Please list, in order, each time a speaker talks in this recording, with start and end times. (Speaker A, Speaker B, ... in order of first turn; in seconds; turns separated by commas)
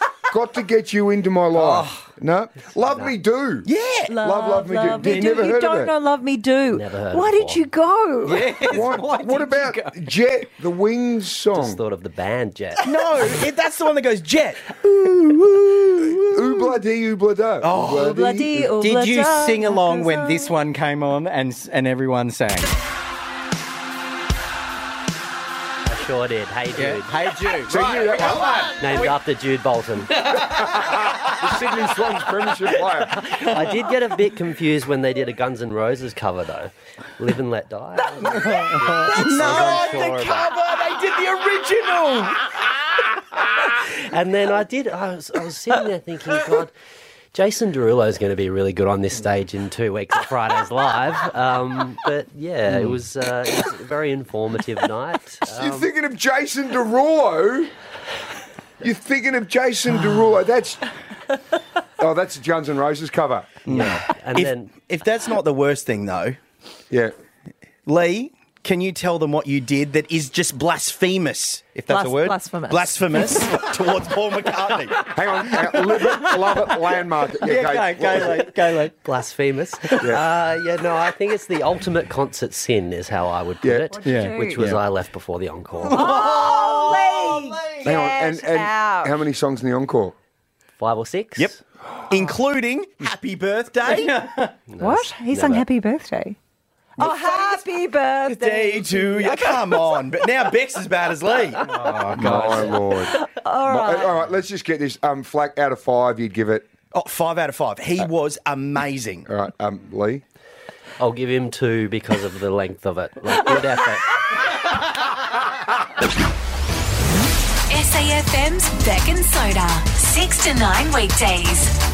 Speaker A: 0.3-5.9, Speaker B: 1.5-2.0, Speaker C: 2.9-3.1, Speaker D: 3.6-4.2, Speaker E: 4.1-8.5, Speaker D: 5.0-5.3, Speaker C: 6.7-7.7, Speaker B: 8.2-10.0, Speaker A: 8.7-11.8, Speaker C: 11.5-12.8, Speaker D: 12.8-16.6, Speaker A: 16.3-18.7, Speaker D: 17.6-18.1, Speaker E: 17.8-20.5, Speaker B: 18.8-22.7, Speaker C: 25.9-27.5, Speaker B: 26.8-29.2, Speaker A: 27.7-28.7, Speaker C: 28.8-30.4, Speaker B: 30.1-30.9, Speaker A: 30.4-33.3, Speaker B: 33.3-33.7, Speaker C: 33.4-40.5, Speaker B: 38.1-40.8, Speaker D: 39.2-42.7, Speaker C: 44.1-46.7, Speaker C: 47.3-55.9, Speaker A: 55.5-57.7, Speaker A: 58.8-60.9, Speaker A: 62.0-63.5, Speaker B: 63.7-64.0, Speaker C: 63.7-64.7, Speaker D: 64.3-66.4, Speaker D: 67.9-75.1, Speaker E: 71.9-73.5, Speaker A: 75.1-78.5, Speaker B: 75.9-76.8, Speaker B: 77.4-79.0, Speaker C: 79.0-86.1, Speaker B: 79.9-80.2, Speaker A: 83.6-84.0, Speaker E: 83.9-84.6, Speaker B: 84.0-84.8, Speaker B: 85.8-87.9, Speaker E: 85.9-89.2, Speaker A: 87.8-90.2, Speaker C: 90.8-91.5, Speaker D: 91.4-94.2, Speaker B: 93.9-94.6, Speaker C: 94.7-95.7, Speaker E: 94.8-96.4, Speaker E: 97.0-100.3, Speaker D: 97.0-97.7, Speaker D: 98.3-102.6, Speaker B: 101.6-102.8, Speaker A: 102.1-106.7, Speaker E: 102.7-104.2, Speaker D: 106.9-109.3, Speaker A: 109.3-110.2, Speaker C: 111.0-114.5, Speaker F: 117.7-121.7